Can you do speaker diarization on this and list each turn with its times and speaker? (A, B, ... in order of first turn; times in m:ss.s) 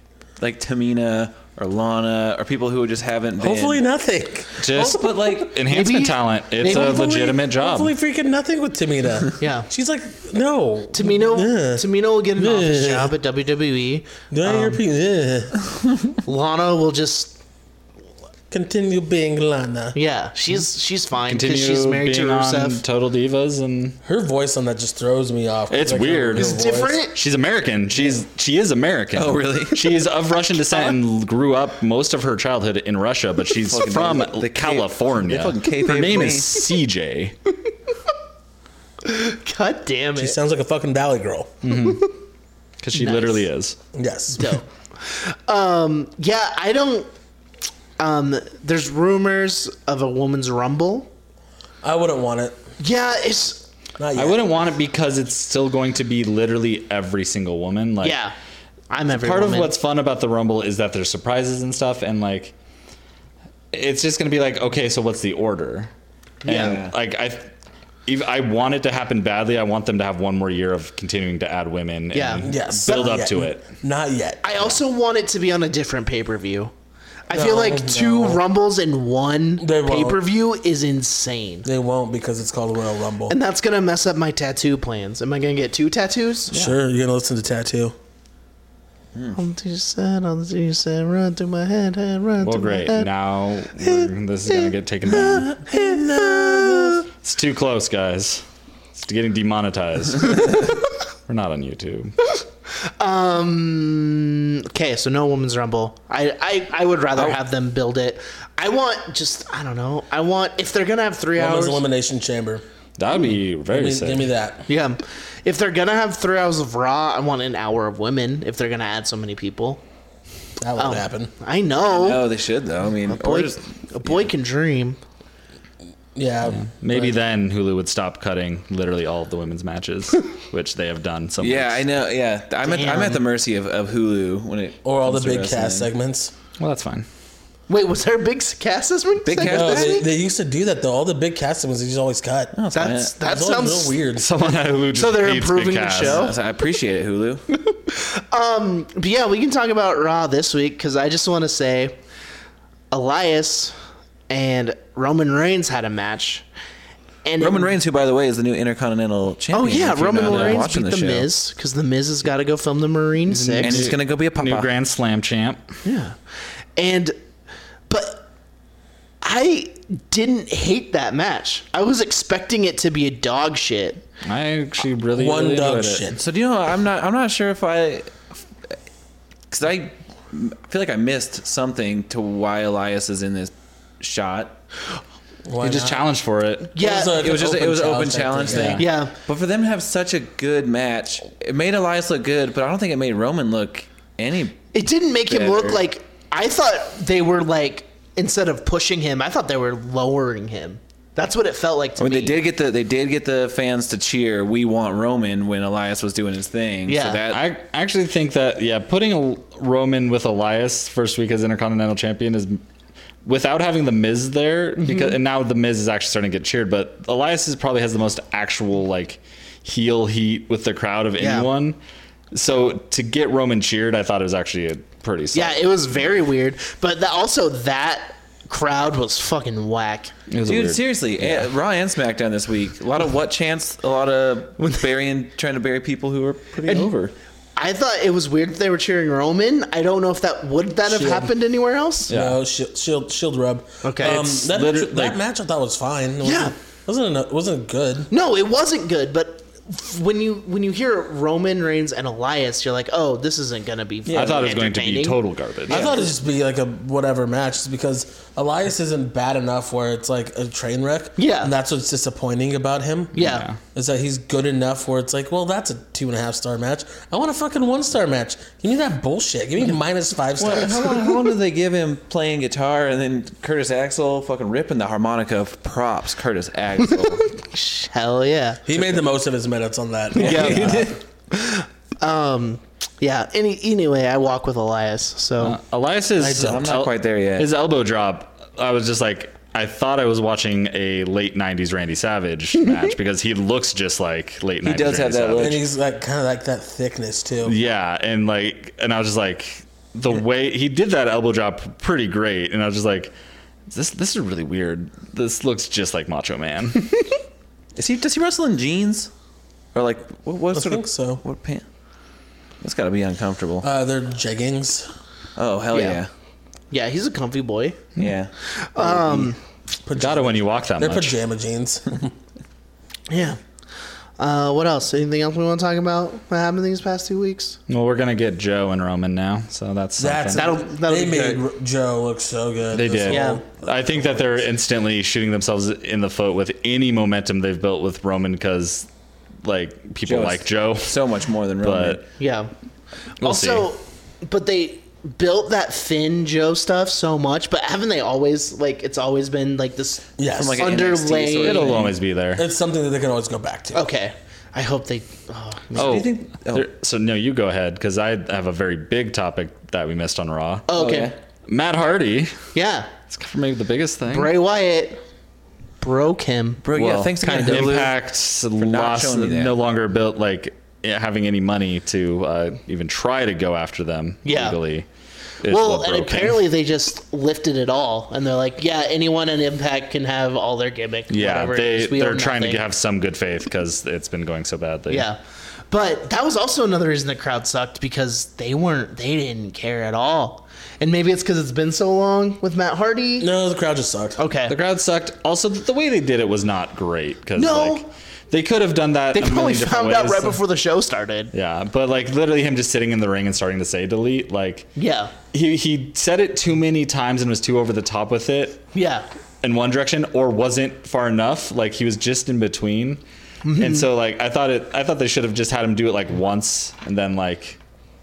0:00.4-0:03.8 A
0:03.4-0:05.4 B
0:04.6-0:07.9 C
0:04.6-0:05.6 A
0:05.7-0:07.1 D
0:06.6-0:11.8 B
0:09.4-0:09.7 D
0:10.9-0:14.8 D
0:12.4-0:13.1 B
0:14.3-0:15.6 B
0:16.2-0:17.4 D
0:18.5-0:20.0 B
0:19.9-0:22.8 D
0:21.2-0:24.0 C
0:24.0-0:27.0 B
0:25.7-0:26.6 C
0:26.4-0:27.2 D
0:27.1-0:37.3 C
0:28.0-0:28.2 B
0:29.1-0:29.8 A
0:30.5-0:31.0 D
0:33.6-0:36.6 A
0:39.0-0:40.4 D
0:40.2-0:41.6 B
0:41.6-0:42.1 C
0:41.6-0:42.1 D
0:42.8-0:43.8 C
0:42.9-0:43.4 D
0:43.9-0:44.6 B
0:44.4-0:47.1 D
0:48.0-0:51.1 D
0:51.8-0:52.6 B
0:52.8-0:53.7 D
0:54.0-0:54.4 B
0:54.2-0:58.2 C
0:58.0-0:58.3 D
0:58.9-0:59.7 D
0:59.1-1:02.5 C
1:03.7-1:05.9 C
1:06.4-1:06.8 D
1:06.4-1:07.5 C
1:06.5-1:06.9 A
1:08.1-1:13.6 C
1:12.1-1:12.5 D
1:12.4-1:14.7 B
1:14.4-1:16.7 D
1:17.3-1:18.4 B
1:17.3-1:21.7 D
1:19.6-1:20.2 B
1:21.6-1:23.4 B
1:23.3-1:26.7 D
1:26.5-1:27.9 B
1:29.3-1:33.1 D
1:32.4-1:35.6 C
1:33.8-1:37.0 D
1:35.7-1:37.0 B
1:37.2-1:38.4 C
1:38.9-1:40.7 C
1:41.3-1:42.1 C
1:42.8-1:51.8 D
1:51.4-1:52.6 B
1:53.0-1:54.3 C
1:53.7-1:54.6 B
1:54.7-1:59.8 D
2:00.6-2:01.3 B
2:00.8-2:02.3 D
2:01.9-2:04.3 A
2:03.1-2:05.0 D
2:06.1-2:07.2 B
2:06.5-2:11.8 C
2:11.4-2:15.9 A
2:12.6-2:13.2 D
2:14.8-2:16.3 B
2:16.6-2:17.0 C
2:17.7-2:20.1 D
2:19.2-2:20.0 A
2:19.4-2:22.5 B
2:22.5-2:23.1 A
2:22.7-2:24.0 D
2:23.2-2:24.5 B
2:24.2-2:26.3 C
2:24.9-2:26.4 D
2:26.0-2:27.4 A
2:27.7-2:32.0 D
2:32.9-2:33.7 D
2:34.3-2:36.4 D
2:37.2-2:37.7 D
2:37.4-2:41.3 A
2:39.5-2:43.9 D
2:40.1-2:40.6 C
2:43.3-2:45.6 C
2:43.6-2:44.7 A
2:45.8-2:46.2 D
2:46.8-2:47.2 D
2:47.9-2:48.3 D
2:49.2-2:54.0 D
2:54.2-2:56.1 C
2:55.1-2:56.2 B
2:56.1-2:58.4 A
2:59.5-3:04.6 A
3:05.4-3:06.0 B
3:05.6-3:06.7 C
3:06.7-3:07.2 D
3:06.8-3:08.8 B
3:07.0-3:14.6 A
3:08.5-3:08.8 C
3:08.8-3:09.2 D
3:14.7-3:22.4 D
3:15.3-3:15.8 A
3:22.0-3:27.4 A
3:26.9-3:27.2 D
3:27.3-3:32.6 C
3:33.2-3:41.8 C
3:34.8-3:35.2 D
3:41.2-3:41.5 D
3:42.3-3:45.7 C
3:45.3-3:50.1 D
3:50.3-3:51.5 C
3:50.4-3:57.1 A
3:54.6-3:54.8 D
3:56.6-3:56.9 D
3:57.6-4:02.1 D
4:00.8-4:01.3 B
4:02.1-4:02.4 C
4:02.1-4:08.1 B
4:03.8-4:04.2 D
4:04.0-4:05.2 C
4:06.2-4:06.5 D
4:08.1-4:15.2 D
4:14.1-4:14.4 B
4:14.1-4:15.9 C
4:15.7-4:31.4 B
4:21.2-4:21.5 D
4:23.1-4:23.6 C
4:23.2-4:23.4 D
4:30.4-4:37.2 A
4:36.8-4:38.6 D
4:38.6-4:41.0 B
4:40.1-4:45.6 D
4:40.2-4:41.0 A
4:45.4-4:55.6 C
4:46.2-4:46.8 B
4:46.4-4:47.5 A
4:54.6-4:55.6 A
4:55.4-4:57.6 B
4:57.4-5:03.1 C
5:03.7-5:06.9 C
5:07.8-5:09.1 A
5:09.7-5:11.6 A
5:10.5-5:11.2 B
5:12.6-5:13.7 A
5:13.6-5:14.9 B
5:15.4-5:16.1 A
5:15.7-5:16.0 D
5:16.7-5:17.8 D
5:18.0-5:18.3 A
5:18.6-5:19.4 D
5:18.8-5:19.3 B
5:19.8-5:22.1 B
5:20.0-5:21.2 C
5:23.1-5:23.4 D
5:24.2-5:27.6 D
5:27.7-5:30.5 C
5:30.0-5:34.5 B
5:30.3-5:31.4 D
5:32.7-5:38.9 C
5:33.1-5:33.4 D
5:39.4-5:41.0 C
5:40.0-5:42.0 A
5:41.6-5:42.0 C
5:42.2-5:42.5 D
5:43.2-5:51.8 D
5:43.2-5:43.7 C
5:50.2-5:50.8 B
5:50.3-5:51.9 A
5:51.4-5:52.4 C
5:52.3-5:53.9 B
5:53.7-5:56.0 D
5:55.7-5:56.6 A
5:55.8-6:00.6 C
6:00.7-6:01.1 D
6:00.7-6:01.1 A
6:01.5-6:02.4 C
6:02.5-6:02.9 D
6:03.1-6:04.3 C
6:04.1-6:05.0 D
6:05.8-6:06.6 D
6:06.6-6:08.0 A
6:06.7-6:14.9 C
6:07.2-6:07.8 D
6:08.6-6:09.5 A
6:14.2-6:14.6 D
6:15.4-6:16.4 C
6:15.4-6:22.6 D
6:21.1-6:25.1 C
6:24.9-6:25.2 D
6:25.7-6:33.3 D
6:33.2-6:34.2 B
6:34.2-6:34.5 D
6:34.5-6:40.4 C
6:37.4-6:37.8 D
6:39.1-6:41.3 D
6:41.3-6:44.7 C
6:44.8-6:45.1 D
6:45.3-6:48.7 C
6:48.7-6:49.0 D
6:49.4-6:53.0 C
6:53.4-6:53.9 D
6:53.6-6:57.6 C